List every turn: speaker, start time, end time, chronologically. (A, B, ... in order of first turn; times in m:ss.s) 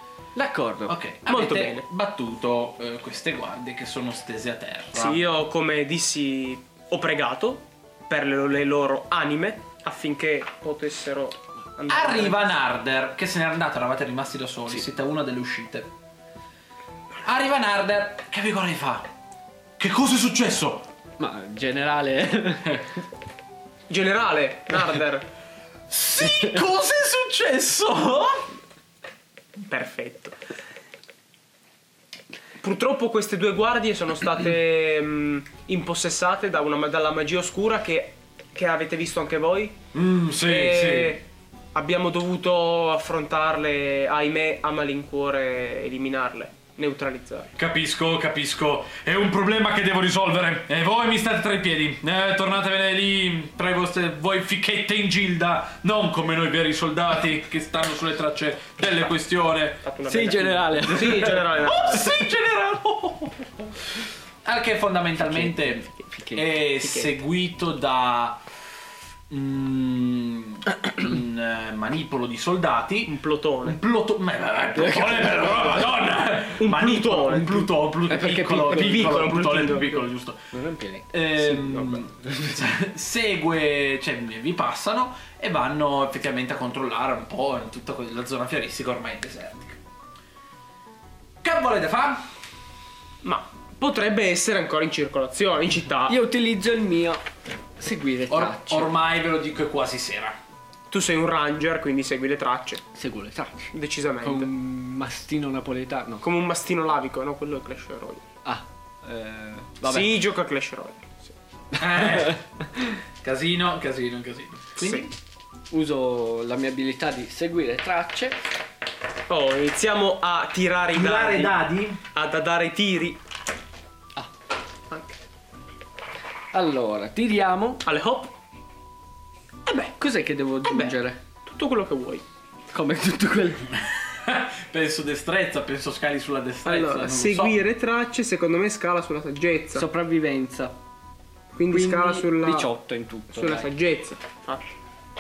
0:00.4-0:01.0 A
0:00.9-0:05.2 B
0:01.3-0:01.8 C
0:04.9-0:12.5 C
0:11.9-0:15.9 B
0:17.2-0:19.1 B
0:19.8-0:20.9 B
0:21.2-0:22.8 A
0:23.9-0:25.3 C
0:25.9-0:28.5 B
0:29.6-0:30.4 C
0:32.6-0:39.8 C
0:39.9-0:41.2 B
0:40.4-0:47.5 C
0:47.6-0:59.9 B
0:59.8-1:02.1 C
1:00.1-1:01.5 A
1:00.9-1:08.4 B
1:05.2-1:06.5 A
1:06.8-1:07.2 C
1:09.3-1:20.4 B
1:13.1-1:13.8 C
1:14.8-1:15.5 A
1:16.6-1:20.0 C
1:18.3-1:19.4 A
1:20.5-1:21.5 A
1:21.1-1:29.8 B
1:21.6-1:22.0 C
1:22.2-1:22.6 A
1:31.4-1:32.3 B
1:33.2-1:36.2 C
1:36.1-1:37.2 A
1:37.8-1:38.9 A
1:38.3-1:40.4 B
1:40.9-1:42.8 C
1:42.9-1:46.2 A
1:43.7-1:44.5 C
1:46.2-1:48.2 C
1:48.4-1:50.2 A
1:49.8-1:51.3 C
1:51.7-1:52.4 B
1:53.2-1:55.1 B
1:54.8-1:55.1 C
1:55.7-1:58.4 A
1:59.3-2:01.6 C
2:00.9-2:02.0 B
2:02.1-2:03.2 C
2:04.9-2:05.2 C
2:06.5-2:07.8 A
2:07.8-2:08.3 C
2:09.8-2:11.2 A
2:10.6-2:12.2 C
2:12.7-2:13.8 A
2:13.7-2:17.6 B
2:16.6-2:19.9 C
2:19.7-2:20.8 A
2:21.5-2:22.7 C
2:21.7-2:23.7 A
2:23.3-2:24.8 C